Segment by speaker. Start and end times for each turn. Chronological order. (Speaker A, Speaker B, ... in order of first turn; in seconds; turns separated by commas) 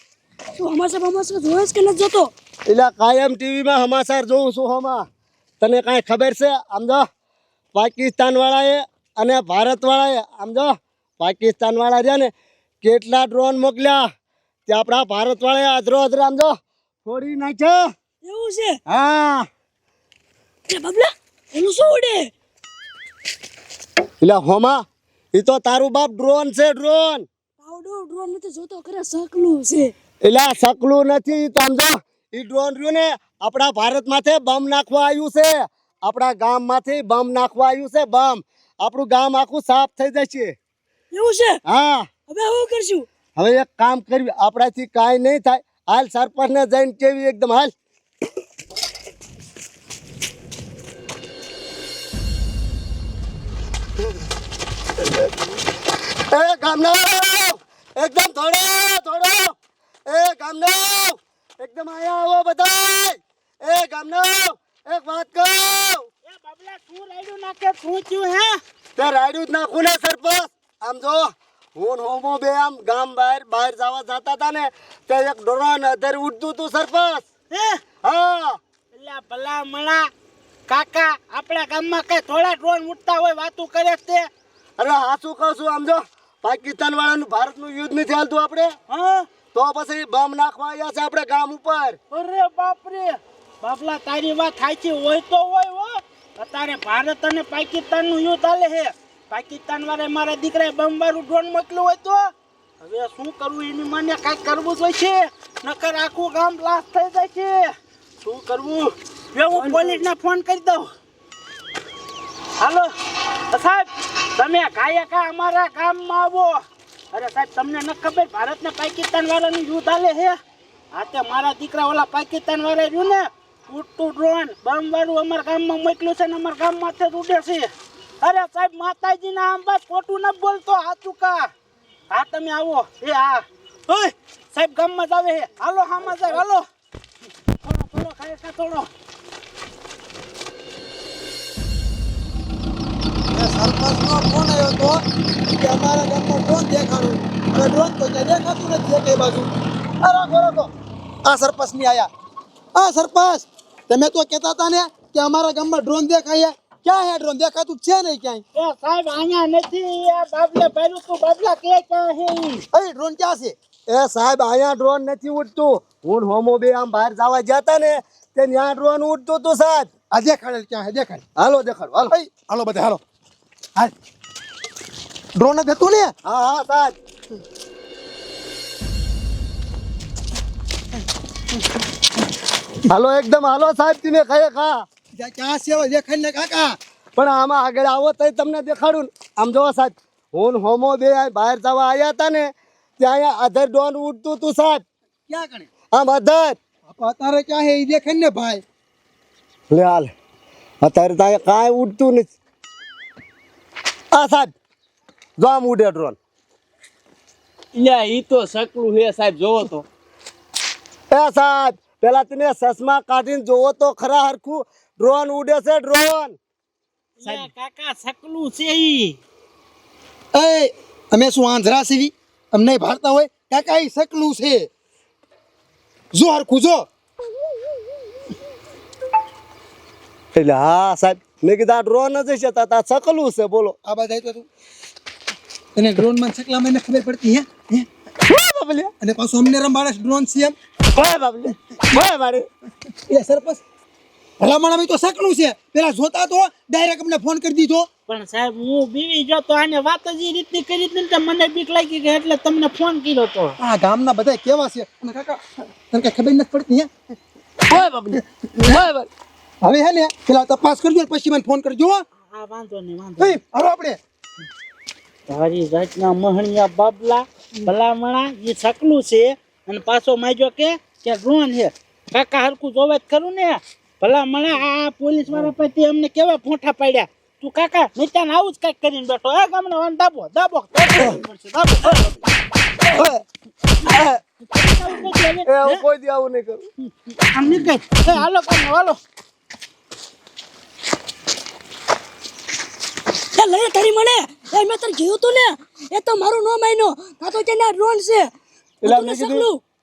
Speaker A: 0.6-2.3, Speaker B: 2.7-5.0, Speaker B: 5.6-7.0, Speaker B: 7.7-12.3, Speaker B: 12.8-14.1, Speaker B: 14.7-16.5, Speaker B: 17.0-17.8, Speaker A: 18.2-18.8, Speaker B: 18.9-19.4, Speaker A: 20.7-22.3, Speaker B: 24.2-24.8, Speaker B: 25.3-27.2, Speaker A: 27.6-29.9, Speaker B: 30.2-40.5, Speaker A: 41.1-41.6, Speaker B: 41.6-42.1, Speaker A: 42.3-43.1, Speaker B: 43.4-47.7, Speaker B: 56.3-59.5, Speaker B: 60.1-66.0, Speaker C: 66.2-68.6, Speaker B: 69.0-77.2, Speaker C: 77.5-77.8, Speaker B: 78.0-78.6, Speaker C: 78.9-80.1, Speaker C: 80.7-84.3, Speaker B: 84.8-88.7, Speaker C: 88.9-89.3, Speaker B: 89.5-92.0, Speaker C: 92.1-110.9, Speaker B: 109.5-110.0, Speaker C: 112.6-112.9, Speaker C: 113.5-116.6, Speaker C: 117.1-120.4, Speaker C: 120.9-127.7, Speaker C: 128.2-131.5, Speaker C: 132.1-136.6, Speaker C: 137.6-138.9, Speaker D: 143.3-145.0, Speaker D: 145.5-149.5, Speaker B: 150.0-150.7, Speaker D: 151.2-152.1, Speaker D: 152.7-158.4, Speaker C: 158.5-162.6, Speaker D: 162.7-163.5, Speaker B: 163.9-169.9, Speaker D: 170.1-171.2, Speaker B: 171.3-172.1, Speaker D: 172.1-173.0, Speaker D: 175.3-176.1, Speaker B: 176.2-176.9, Speaker B: 182.9-184.8, Speaker D: 185.2-186.8, Speaker B: 187.2-194.8, Speaker D: 195.3-195.7, Speaker B: 195.9-196.6, Speaker D: 196.8-198.6, Speaker B: 199.7-200.1, Speaker B: 200.8-202.3, Speaker B: 204.1-204.5, Speaker B: 205.4-206.2, Speaker E: 207.8-209.8, Speaker B: 211.1-216.3, Speaker C: 217.2-219.2, Speaker D: 220.3-224.7, Speaker D: 226.1-226.8, Speaker B: 230.3-233.7, Speaker D: 233.8-234.5, Speaker D: 235.7-237.9, Speaker B: 238.2-238.9, Speaker D: 239.0-240.5, Speaker B: 240.9-242.4, Speaker D: 243.1-243.6, Speaker D: 244.4-247.9, Speaker C: 248.1-253.6, Speaker D: 253.6-256.9, Speaker D: 258.2-258.8, Speaker D: 259.6-262.0, Speaker C: 262.3-263.4, Speaker D: 263.2-264.0, Speaker C: 265.3-282.1, Speaker B: 282.9-283.2, Speaker B: 283.9-284.2, Speaker C: 283.9-285.8, Speaker B: 285.4-286.6, Speaker C: 286.8-289.0, Speaker A: 293.3-298.3, Speaker B: 298.8-299.5, Speaker A: 298.8-299.6